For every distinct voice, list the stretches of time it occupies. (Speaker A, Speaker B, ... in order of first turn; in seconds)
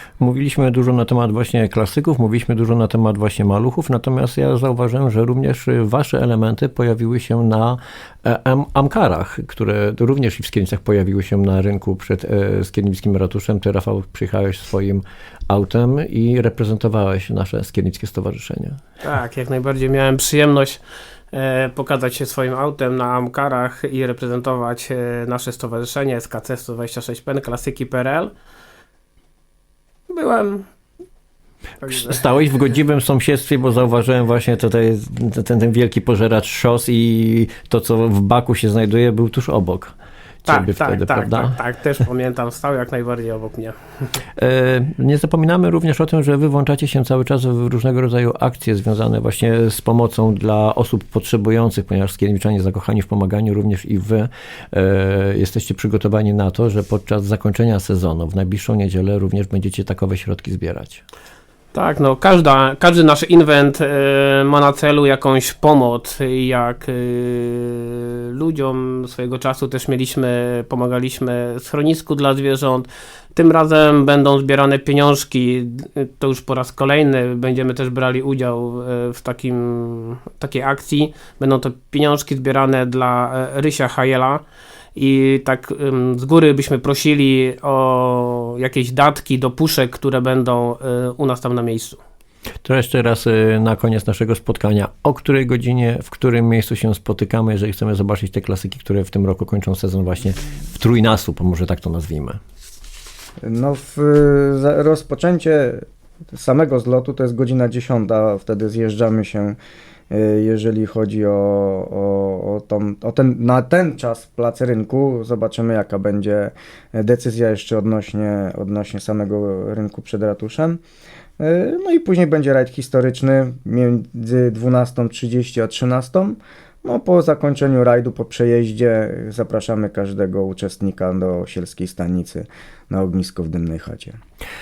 Speaker A: 0.2-18.8, 31.9-39.9, 40.4-41.5, 44.4-61.0, 92.6-102.4
Speaker B: 19.0-28.3, 30.1-30.6, 31.8-32.2, 40.5-43.8, 61.7-84.4, 85.0-92.0
Speaker C: 103.4-109.6, 110.1-120.8, 121.4-134.2